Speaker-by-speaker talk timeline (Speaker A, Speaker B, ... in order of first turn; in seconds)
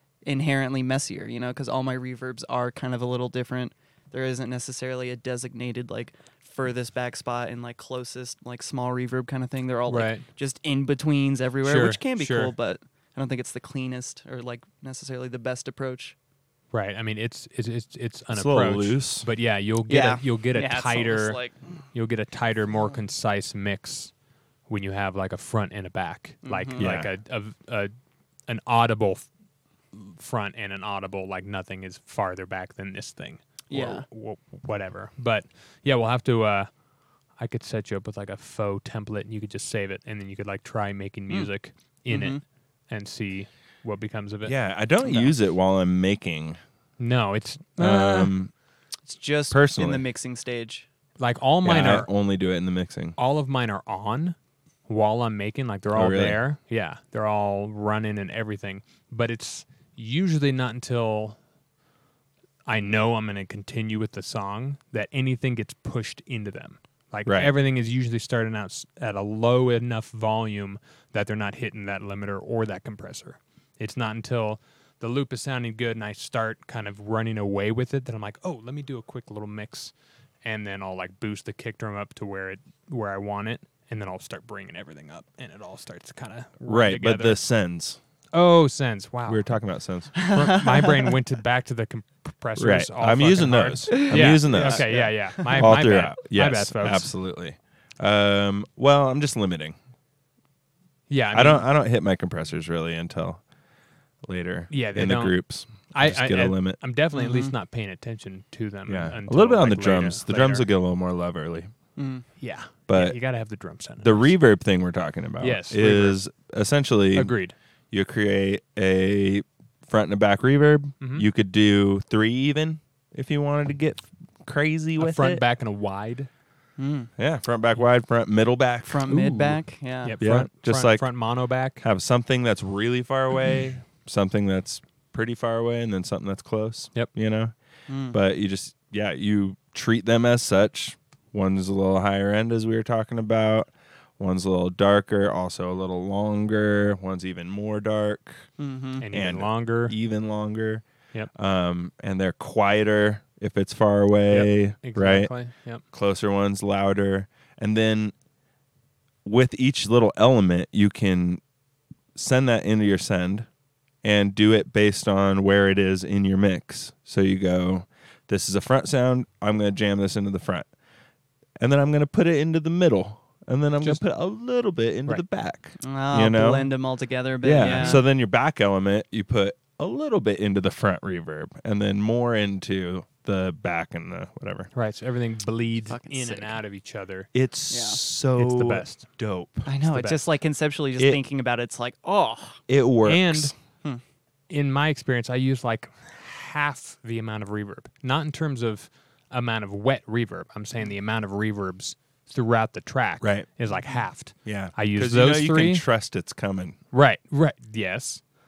Speaker A: 0.2-16.1, 19.9-21.6, 26.4-26.8, 33.7-34.0, 42.1-42.4, 49.0-50.9, 90.2-90.9, 94.0-95.7, 107.1-107.5, 112.0-112.2, 126.8-127.1, 128.9-130.1, 137.9-138.2, 148.6-149.0, 175.8-178.0, 185.9-186.6, 187.7-188.0, 189.7-192.6
Speaker B: 9.9-10.2, 11.6-12.5, 16.7-21.4, 21.9-24.1, 24.7-27.9, 28.5-29.3, 29.9-36.7, 37.4-44.5, 47.0-48.3, 51.2-52.1, 53.2-54.4, 54.9-61.4, 62.6-87.4, 88.3-89.5, 90.2-97.1, 101.1-101.6, 104.7-105.4, 105.9-110.7, 112.4-114.3, 115.4-116.2, 117.1-117.5, 121.0-121.2, 125.0-126.3, 130.0-131.8, 149.0-149.9, 154.3-155.8, 177.6-178.0, 184.7-187.3, 188.3-189.1, 189.9-190.2, 193.0-193.5, 194.5-205.8, 206.9-208.2
Speaker C: 18.3-19.3, 26.8-27.1, 44.4-46.6, 47.8-48.5, 49.5-50.0, 51.6-53.1, 55.9-56.4, 67.2-67.5, 86.6-88.0, 89.3-90.2, 92.5-99.8, 101.3-103.4, 104.2-106.8, 108.9-111.7, 112.9-113.2, 114.0-117.3, 117.9-125.4, 127.2-129.6, 130.2-131.1, 131.8-137.5, 138.1-148.5, 149.1-155.3, 155.9-158.1, 159.2-161.4, 162.1-163.5, 164.0-170.7, 171.6-176.7, 177.4-184.7, 187.3-189.7, 192.7-193.5, 203.2-203.5, 204.4-206.8